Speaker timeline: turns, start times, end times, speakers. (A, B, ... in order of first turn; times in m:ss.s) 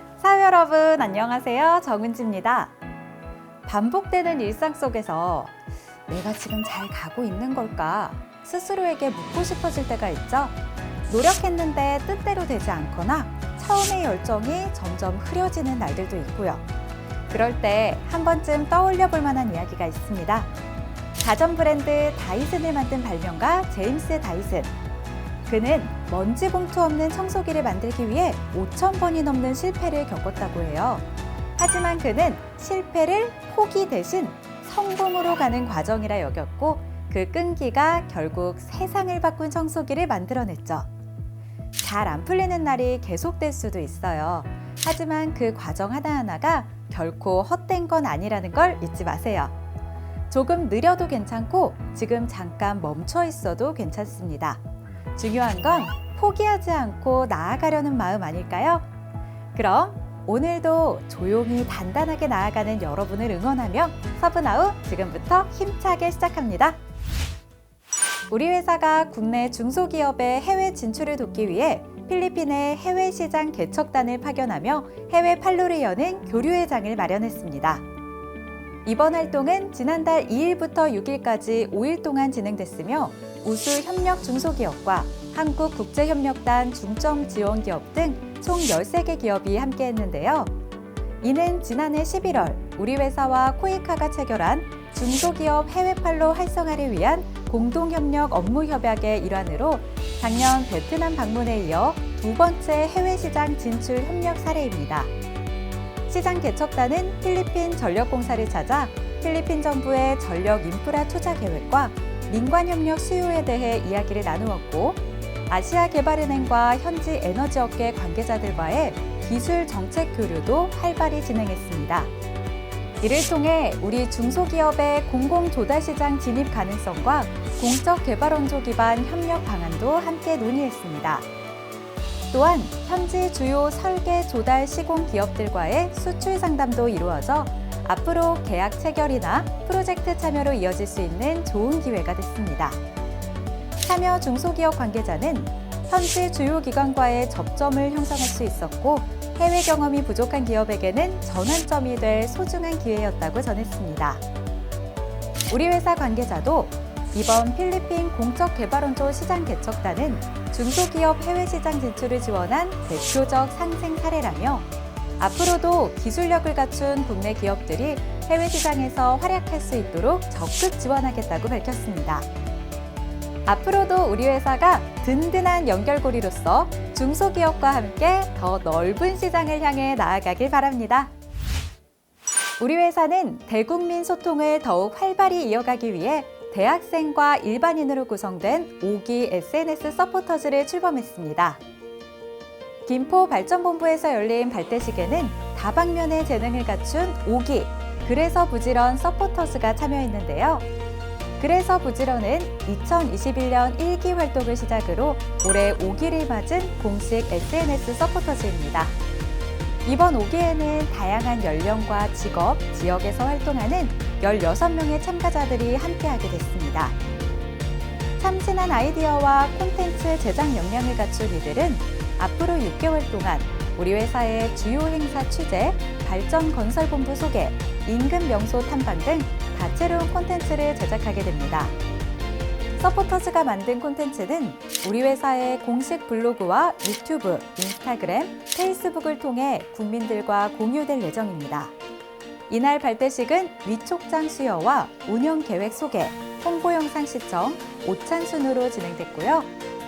0:00.2-0:02.8 A
0:03.7-0:05.6 A
0:06.1-0:10.6 A
0:11.1-0:16.6 A
0:17.3-0:20.5 A
0:21.2-0:24.7 A
0:25.5-0:31.1 A
0:31.6-0:40.9 A
0:41.8-0:49.6 A
0:50.3-0:54.6 A
0:55.2-0:58.9 A
0:59.5-1:06.8 A
1:08.3-1:17.8 A
1:18.8-1:30.5 A
1:31.2-1:45.1 A
1:46.1-2:02.1 A
2:03.0-2:11.3 A
2:12.3-2:22.8 A
2:23.8-2:34.2 A
2:35.5-2:44.7 A
2:45.2-2:52.3 A
2:53.5-3:01.1 A
3:02.6-3:11.6 A
3:12.9-3:20.7 A
3:21.4-3:29.0 A
3:29.8-3:37.0 A
3:38.2-3:51.7 A
3:52.8-4:01.7 A
4:02.5-4:09.5 A